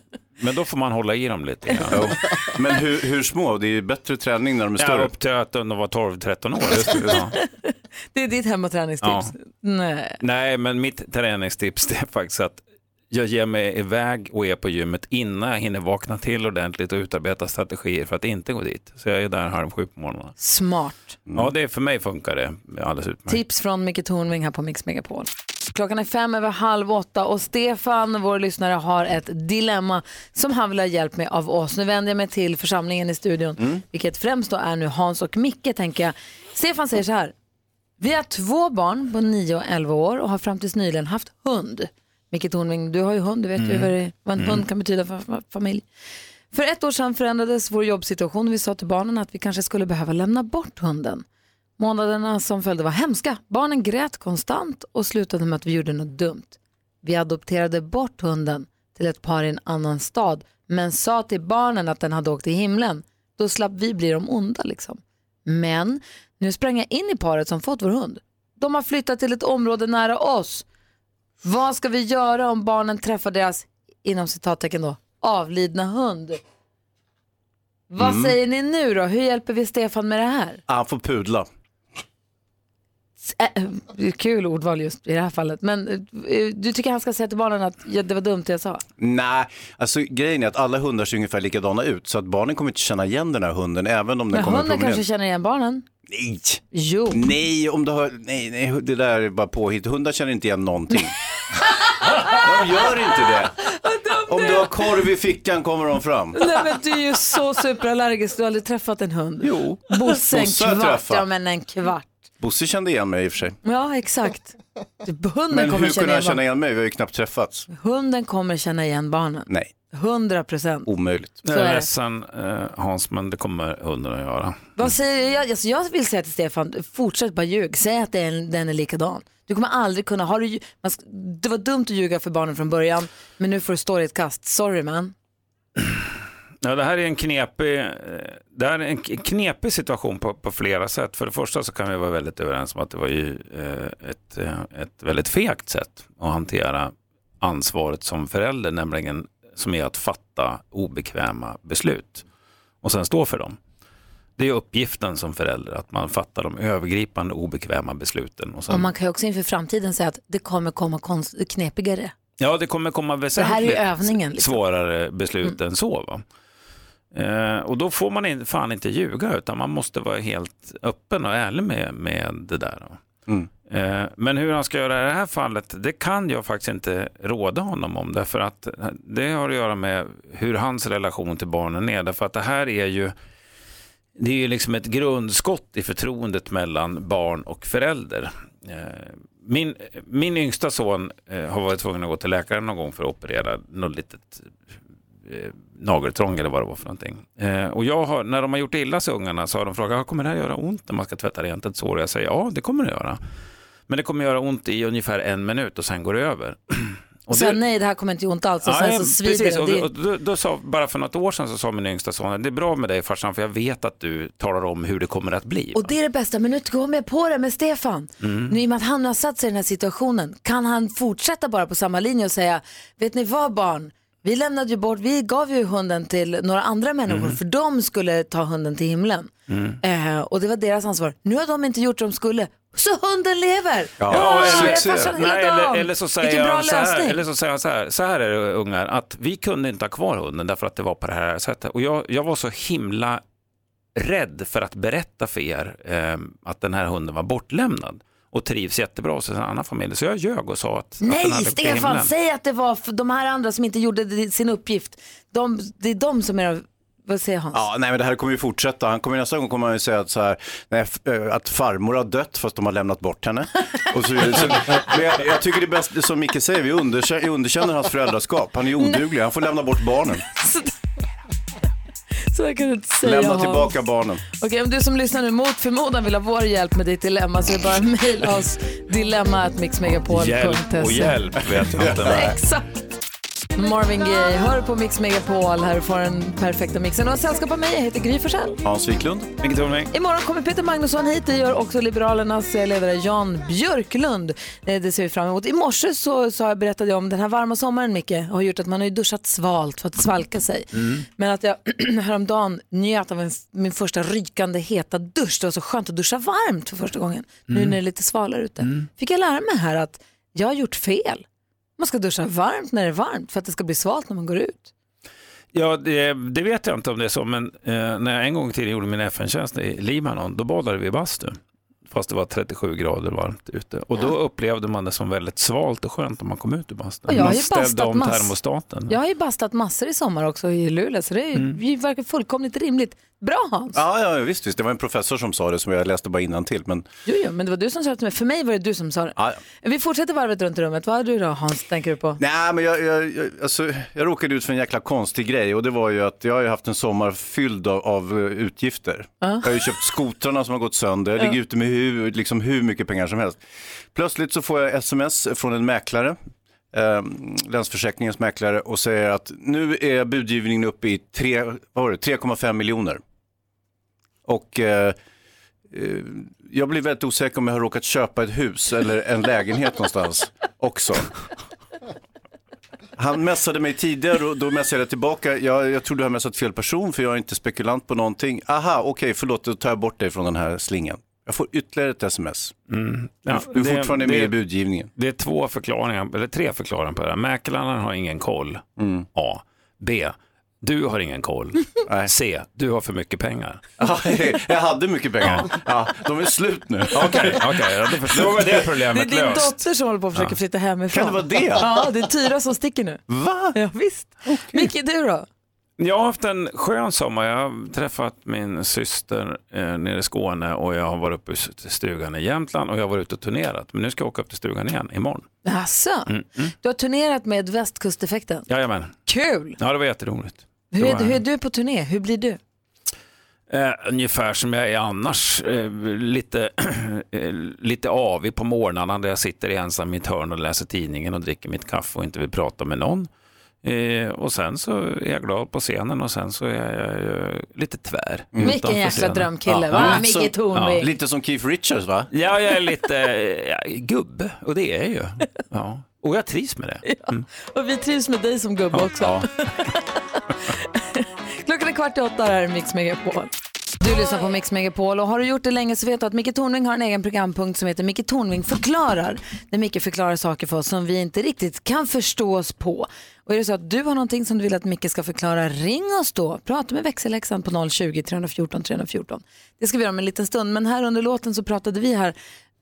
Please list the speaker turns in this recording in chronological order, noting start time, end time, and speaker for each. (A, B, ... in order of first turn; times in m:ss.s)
0:00.4-0:02.0 A
0:01.9-0:05.1 B
0:04.8-0:07.4 A
0:07.2-0:10.2 C
0:09.0-0:09.3 A
0:10.2-0:20.3 A
0:20.4-0:21.2 C
0:21.3-0:23.4 A
0:23.3-0:37.3 C
0:38.0-0:45.8 C
0:46.5-0:51.2 C
0:51.8-1:10.7 C
1:11.4-1:16.4 C
1:17.9-1:20.6 C
1:18.0-1:18.4 B
1:20.7-1:21.5 B
1:23.2-1:28.8 C
1:29.0-1:35.0 B
1:34.3-1:35.9 C
1:36.1-1:41.1 B
1:36.7-1:37.2 C
1:42.2-1:43.6 B
1:43.7-1:44.7 C
1:44.3-1:46.4 B
1:46.4-1:52.3 C
1:49.4-1:51.3 B
1:52.4-1:53.6 B
1:53.6-1:56.4 C
1:55.5-1:57.7 B
1:57.7-2:00.9 C
2:00.9-2:01.4 B
2:01.4-2:04.7 A
2:01.5-2:01.9 C
2:04.8-2:15.1 C
2:16.6-2:32.2 A
2:32.8-2:33.6 A
2:34.4-2:38.9 A
2:38.7-2:42.1 C
2:42.4-2:46.2 A
2:43.4-2:44.6 C
2:47.1-2:53.0 A
2:53.7-3:03.1 A
3:04.2-3:14.6 A
3:15.3-3:23.2 A
3:23.9-3:27.6 A
3:27.3-3:29.9 C
3:28.6-3:35.9 A
3:35.8-3:49.3 C
3:38.2-3:38.6 A
3:47.1-3:47.4 A
3:49.5-3:49.8 A
3:49.8-3:57.2 C
3:54.0-3:55.1 B
3:54.1-4:03.2 A
4:04.0-4:12.1 A
4:11.0-4:17.6 C
4:17.5-4:30.2 B
4:30.3-4:30.7 C
4:32.3-4:33.8 C
4:33.0-4:34.2 B
4:34.3-4:41.2 C
4:40.1-4:42.4 A
4:41.7-4:42.3 B
4:42.0-4:42.6 C
4:43.6-4:48.6 C
4:48.6-4:49.4 B
4:49.4-4:49.9 A
4:49.9-5:11.2 C
5:07.5-5:07.8 A
5:11.8-5:14.7 C
5:15.5-5:29.0 A
5:27.1-5:28.3 C
5:28.9-5:33.8 C
5:33.7-5:36.9 B
5:37.0-5:42.2 C
5:42.2-5:53.4 B
5:49.2-5:49.5 C
5:53.9-5:56.2 B
5:56.7-6:03.0 B
6:04.2-6:05.0 B
6:05.7-6:11.1 B
6:13.0-6:22.5 B
6:22.7-6:24.4 A
6:23.3-6:24.9 B
6:25.0-6:33.6 A
6:28.8-6:29.1 B
6:33.8-6:38.5 B
6:36.9-6:39.6 A
6:38.9-6:43.0 C
6:40.9-6:41.7 B
6:43.1-6:43.6 B
6:43.5-6:45.3 C
6:44.3-6:44.7 B
6:45.8-6:55.3 A
6:55.4-6:56.1 C
6:56.1-6:56.5 A
6:56.6-6:58.5 C
6:58.5-6:59.0 A
6:59.1-6:59.6 C
6:59.6-7:01.2 A
7:00.7-7:02.4 C
7:03.5-7:13.1 A
7:13.6-7:20.0 A
7:18.3-7:22.1 B
7:18.4-7:20.9 C
7:22.1-7:27.2 A
7:26.9-7:52.2 C
7:29.0-7:29.3 A